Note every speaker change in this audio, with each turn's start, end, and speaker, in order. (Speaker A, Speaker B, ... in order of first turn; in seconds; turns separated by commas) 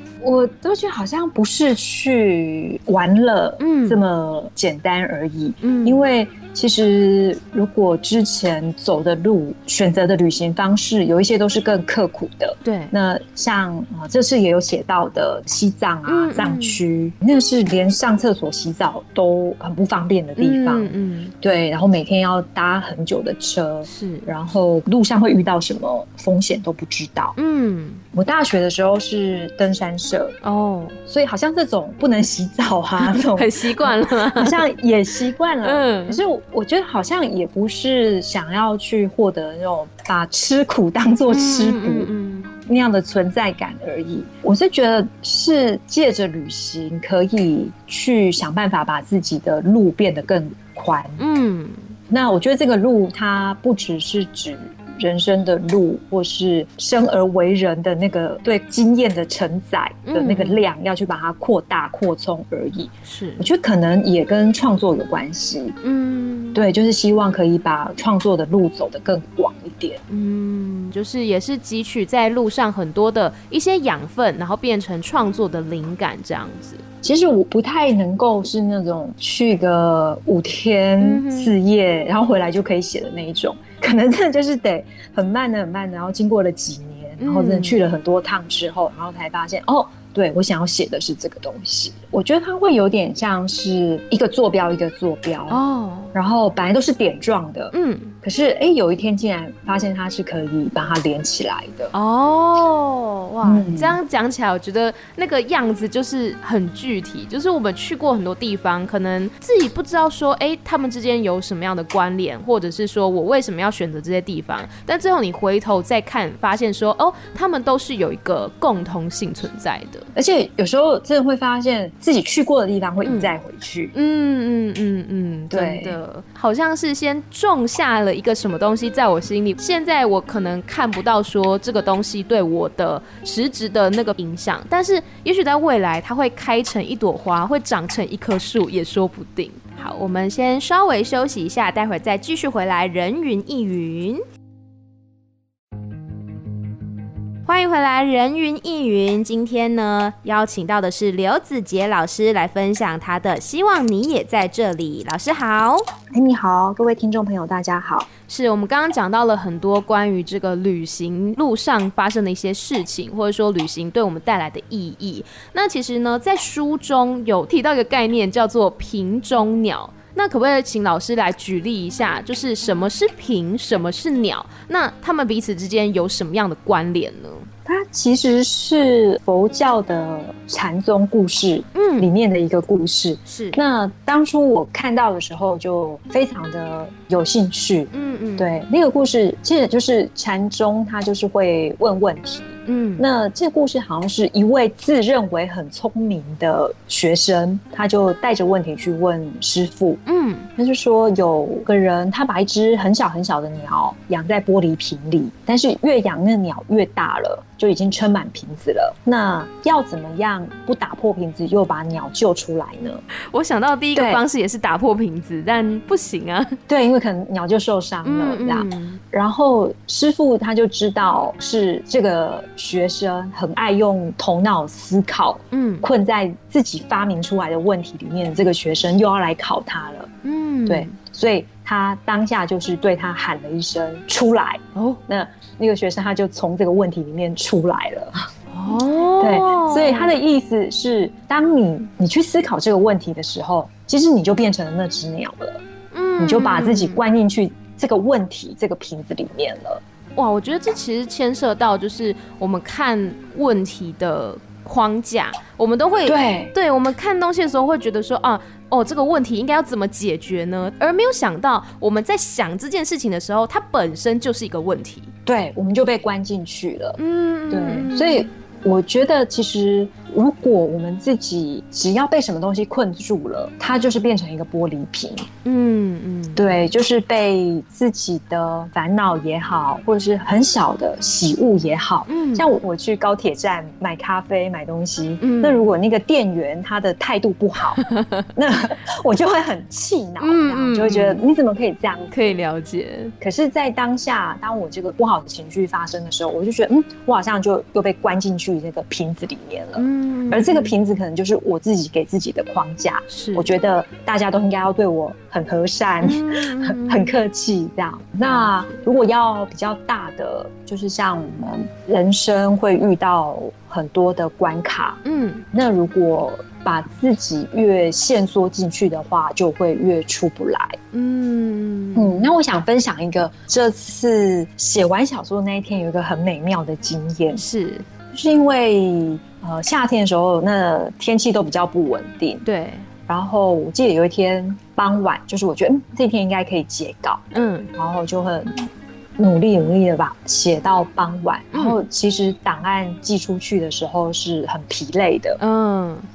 Speaker A: 0.2-27.3, Speaker B: 3.6-4.0, Speaker B: 5.6-6.0, Speaker B: 12.6-12.9, Speaker B: 16.1-16.8, Speaker B: 20.4-21.3, Speaker B: 23.8-24.3, Speaker B: 27.4-28.0, Speaker A: 28.1-30.4, Speaker B: 30.4-31.0, Speaker A: 31.1-51.2, Speaker B: 33.0-34.6, Speaker B: 35.6-36.2, Speaker B: 41.3-42.5, Speaker B: 51.2-51.9, Speaker A: 52.1-65.8, Speaker B: 60.0-60.6, Speaker B: 63.0-63.5, Speaker B: 65.8-66.6, Speaker A: 66.5-70.0, Speaker B: 70.1-76.8, Speaker A: 77.0-95.6, Speaker B: 81.0-81.5, Speaker B: 87.2-87.8, Speaker B: 95.5-96.1, Speaker A: 96.1-101.9, Speaker B: 97.7-98.1, Speaker B: 101.9-120.1, Speaker A: 103.4-104.0, Speaker A: 120.1-123.9, Speaker B: 123.0-123.3, Speaker B: 123.9-144.2, Speaker A: 125.5-126.0, Speaker B: 147.4-155.8, Speaker A: 156.1-158.1, Speaker B: 158.3-177.5, Speaker A: 177.7-200.0, Speaker B: 181.7-182.1, Speaker B: 183.2-183.6, Speaker B: 187.9-188.6, Speaker B: 192.7-193.0, Speaker B: 200.1-200.5, Speaker A: 200.6-213.0, Speaker B: 213.2-216.6, Speaker A: 213.9-214.2, Speaker A: 216.7-230.1, Speaker B: 218.0-219.0, Speaker B: 225.5-225.9, Speaker B: 230.2-230.9, Speaker A: 230.7-238.3, Speaker B: 234.7-235.0, Speaker B: 238.5-240.1, Speaker A: 239.2-245.6, Speaker B: 245.9-247.0, Speaker A: 246.2-249.8, Speaker B: 250.2-265.1, Speaker A: 256.1-256.5, Speaker A: 265.2-267.0, Speaker B: 267.0-268.3, Speaker A: 267.5-275.3, Speaker B: 275.4-276.6, Speaker A: 276.4-287.8, Speaker B: 282.1-282.5, Speaker B: 285.2-285.7, Speaker B: 287.8-288.2, Speaker A: 288.3-292.1, Speaker B: 290.2-291.2, Speaker B: 292.1-293.1, Speaker A: 293.2-315.0, Speaker B: 299.8-300.7, Speaker B: 303.1-303.5, Speaker B: 306.0-307.1, Speaker B: 308.2-308.5, Speaker B: 315.0-315.4, Speaker A: 315.5-320.8, Speaker B: 320.9-322.3, Speaker A: 321.9-327.4, Speaker B: 327.3-327.8, Speaker A: 328.1-332.4, Speaker B: 332.4-332.9, Speaker A: 333.1-337.2, Speaker B: 337.3-337.7, Speaker A: 337.8-345.4, Speaker B: 341.5-341.8, Speaker B: 345.4-346.1